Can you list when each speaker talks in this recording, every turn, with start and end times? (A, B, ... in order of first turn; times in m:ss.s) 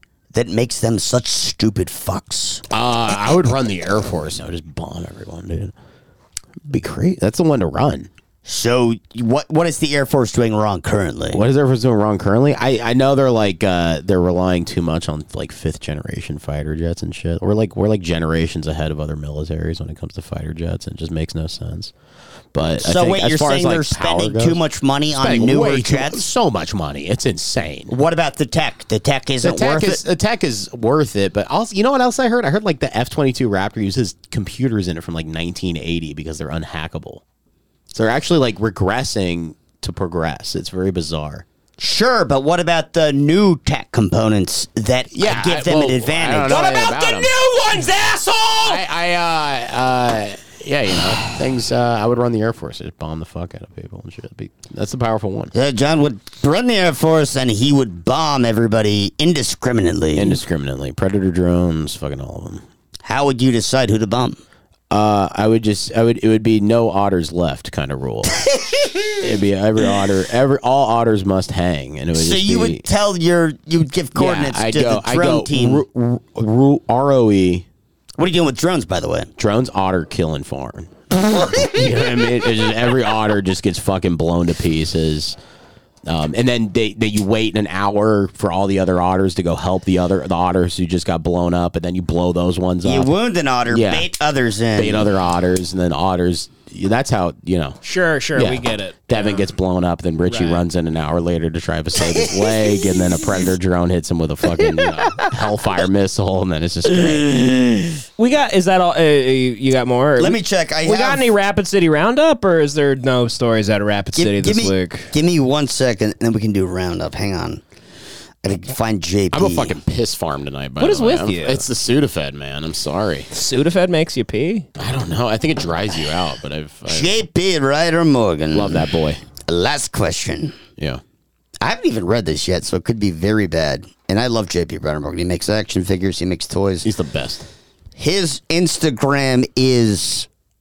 0:00.3-0:02.6 A
0:02.7-0:05.7 B
0:06.7-0:08.1 B
0:08.4-0:11.4 A
0:11.3-0:21.9 B
0:22.5-0:24.6 B
0:22.8-0:26.2 A
0:25.1-0:27.9 B
0:27.9-0:30.0 A
0:29.4-0:37.2 B
0:37.9-0:41.4 B
0:41.8-0:46.8 A
0:45.1-0:47.3 B
0:46.5-0:48.8 C
0:48.6-0:55.5 B
0:55.5-1:00.4 A
1:00.1-1:02.6 B
1:03.0-1:04.4 A
1:04.9-1:08.4 B
1:09.2-1:12.8 B
1:12.1-1:15.8 A
1:14.1-1:17.6 B
1:18.2-1:19.3 A
1:19.4-1:25.4 B
1:26.0-1:33.1 B
1:32.8-1:35.1 A
1:33.7-1:34.1 B
1:34.8-1:37.8 B
1:37.8-1:39.5 C
1:38.3-1:47.3 B
1:40.3-1:40.6 C
1:48.2-1:55.1 C
1:50.2-1:51.3 A
1:54.1-1:57.6 A
1:58.4-1:59.8 A
1:59.3-2:03.3 B
2:00.8-2:01.6 C
2:03.3-2:04.7 C
2:04.8-2:07.1 B
2:06.9-2:08.8 A
2:08.5-2:09.2 B
2:09.4-2:10.6 A
2:11.6-2:16.9 A
2:16.8-2:17.5 B
2:18.0-2:20.3 A